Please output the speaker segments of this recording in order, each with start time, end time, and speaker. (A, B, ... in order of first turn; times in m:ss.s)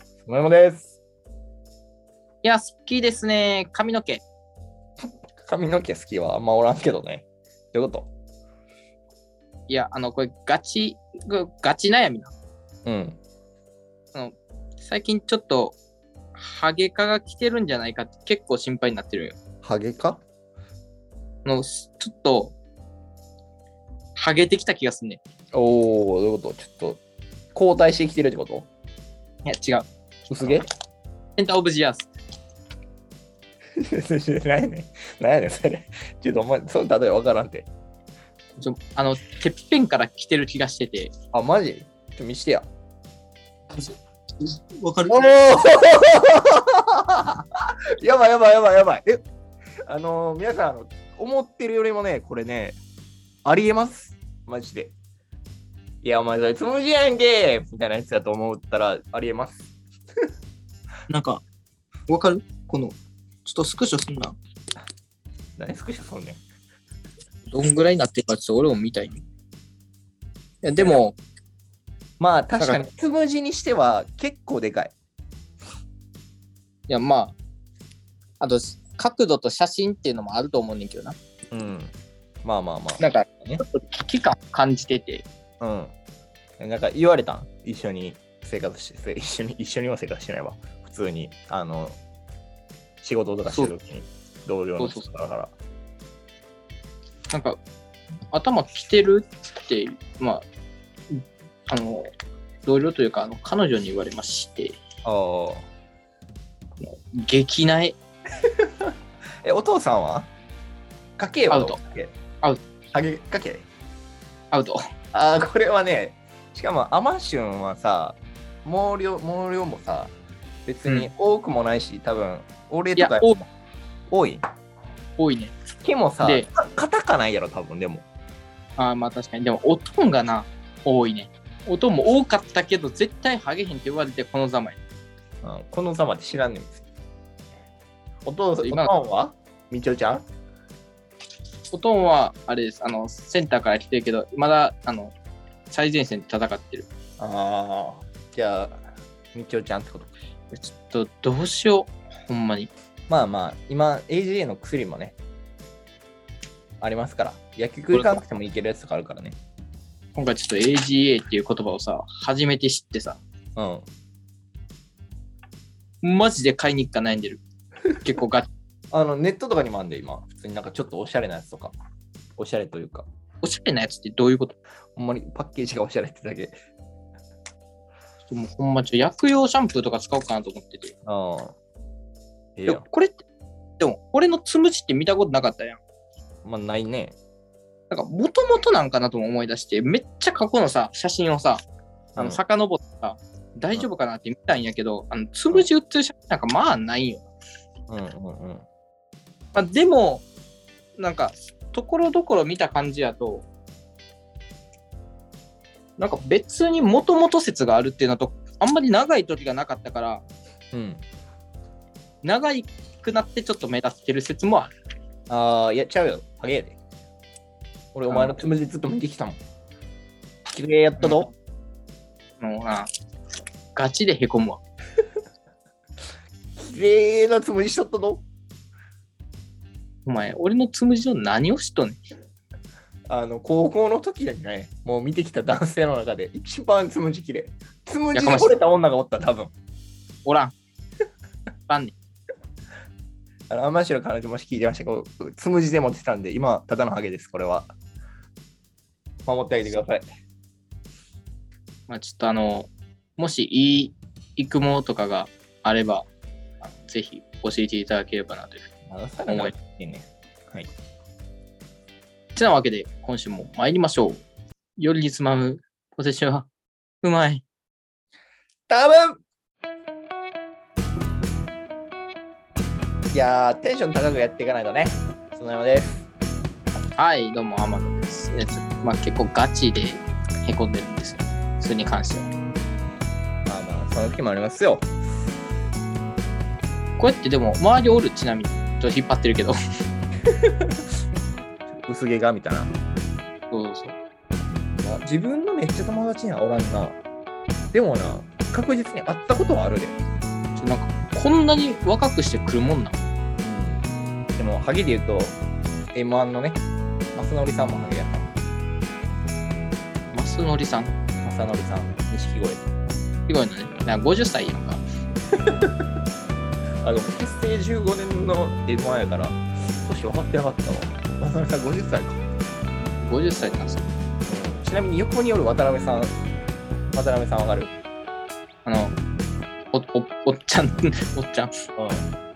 0:00.2-0:01.0 A
0:02.4-0:04.2 B
0:05.4-0:08.1 A
0:09.7-0:12.3 B
0:12.8-0:13.2 A
0:14.1-0:15.8 B
0:16.4-0:19.4 B
0:19.6-0:20.2 A
0:21.4-0:22.5 B
0:24.2-0:25.2 B
0:25.5-0:27.0 A
0:27.5-0:28.7 A
0:29.4-0:29.9 B
0:30.3-0:30.7 A
0:31.4-0:32.1 B
0:33.8-0:37.7 A
0:38.6-0:41.1 B
0:41.3-0:42.7 A
0:43.7-0:45.3 B
0:45.1-0:49.2 A
0:49.8-0:52.8 A
0:53.4-0:54.9 A
0:56.0-0:59.7 A
1:01.1-1:01.4 B
1:02.1-1:04.4 B
1:05.6-1:06.4 A
1:07.5-1:09.2 B
1:10.6-1:11.2 B
1:10.8-1:11.0 A
1:12.2-1:14.9 A
1:12.6-1:12.9 B
1:16.9-1:17.3 B
1:18.4-1:21.2 B
1:21.5-1:23.6 A
1:23.0-1:25.2 B
1:25.6-1:25.9 A
1:26.6-1:32.0 A
1:33.0-1:35.5 A
1:34.8-1:35.1 B
1:37.3-1:37.6 B
1:38.3-1:40.4 B
1:41.1-1:42.1 B
1:42.6-1:44.8 B
1:45.0-1:45.6 A
1:46.8-1:48.0 B
1:48.4-1:50.3 A
1:51.2-1:52.1 A
1:51.5-1:51.8 B
1:52.9-1:53.7 A
1:54.5-1:54.8 B
1:55.1-2:00.1 A
2:00.6-2:03.5 A
2:03.0-2:03.4 B
2:04.1-2:04.4 A
2:05.2-2:05.5 B
2:05.8-2:08.0 A
2:06.2-2:06.5 B
2:08.8-2:14.8 B
2:15.4-2:16.8 A
2:18.2-2:20.2 A
2:18.6-2:18.9 B
2:21.7-2:25.1 B
2:25.7-2:26.9 B
2:27.2-2:30.1 A
2:30.5-2:32.7 B
2:33.1-2:35.2 A
2:36.8-2:39.4 A
2:37.9-2:38.2 B
2:40.1-2:43.2 B
2:43.6-2:43.9 A
2:46.0-2:47.4 B
2:48.0-2:48.5 B
2:48.9-2:51.7 A
2:52.4-2:53.1 A
2:53.4-2:54.6 B
2:55.0-2:56.6 A
2:58.3-3:00.9 B
3:01.0-3:01.6 A
3:02.6-3:02.8 A
3:02.7-3:03.2 B
3:03.8-3:05.8 B
3:06.4-3:07.2 A
3:07.9-3:11.6 B
3:12.2-3:17.3 B
3:17.9-3:18.6 A
3:19.5-3:20.2 B
3:21.0-3:23.5 B
3:26.0-3:30.2 B
3:30.7-3:31.0 A
3:32.2-3:34.7 B
3:35.3-3:36.8 A
3:37.9-3:39.4 A
3:38.1-3:38.4 B
3:40.5-3:41.3 A
3:41.0-3:41.3 B
3:42.4-3:42.9 B
3:43.7-3:44.6 B
3:46.6-3:48.2 A
3:50.0-3:52.0 B
3:53.1-3:59.5 A
3:58.1-3:58.5 B
4:00.2-4:00.5 B
4:01.7-4:01.9 B
4:03.5-4:07.7 A
4:09.2-4:10.0 A
4:11.9-4:16.1 B
4:16.6-4:18.6 B
4:18.9-4:20.7 A
4:19.3-4:19.5 B
4:22.4-4:24.2 B
4:24.8-4:26.5 B
4:27.0-4:27.4 B
4:28.7-4:29.2 A
4:33.1-4:36.1 A
4:37.0-4:42.3 B
4:43.4-4:44.9 A
4:47.0-4:49.6 B
4:50.3-4:50.8 A
4:51.7-4:52.7 A
4:53.5-4:54.0 B
4:54.8-4:57.0 A
4:57.7-5:00.0 A
5:00.6-5:03.0 B
5:03.4-5:05.4 A
5:05.9-5:06.6 A
5:07.1-5:08.3 A
5:10.1-5:10.9 B
5:11.2-5:12.6 A
5:13.3-5:14.8 B
5:15.4-5:15.8 A
5:16.8-5:22.2 A
5:23.0-5:23.8 B
5:24.3-5:26.2 A
5:26.9-5:27.7 A
5:28.6-5:29.0 B
5:29.7-5:31.6 B
5:31.8-5:32.1 A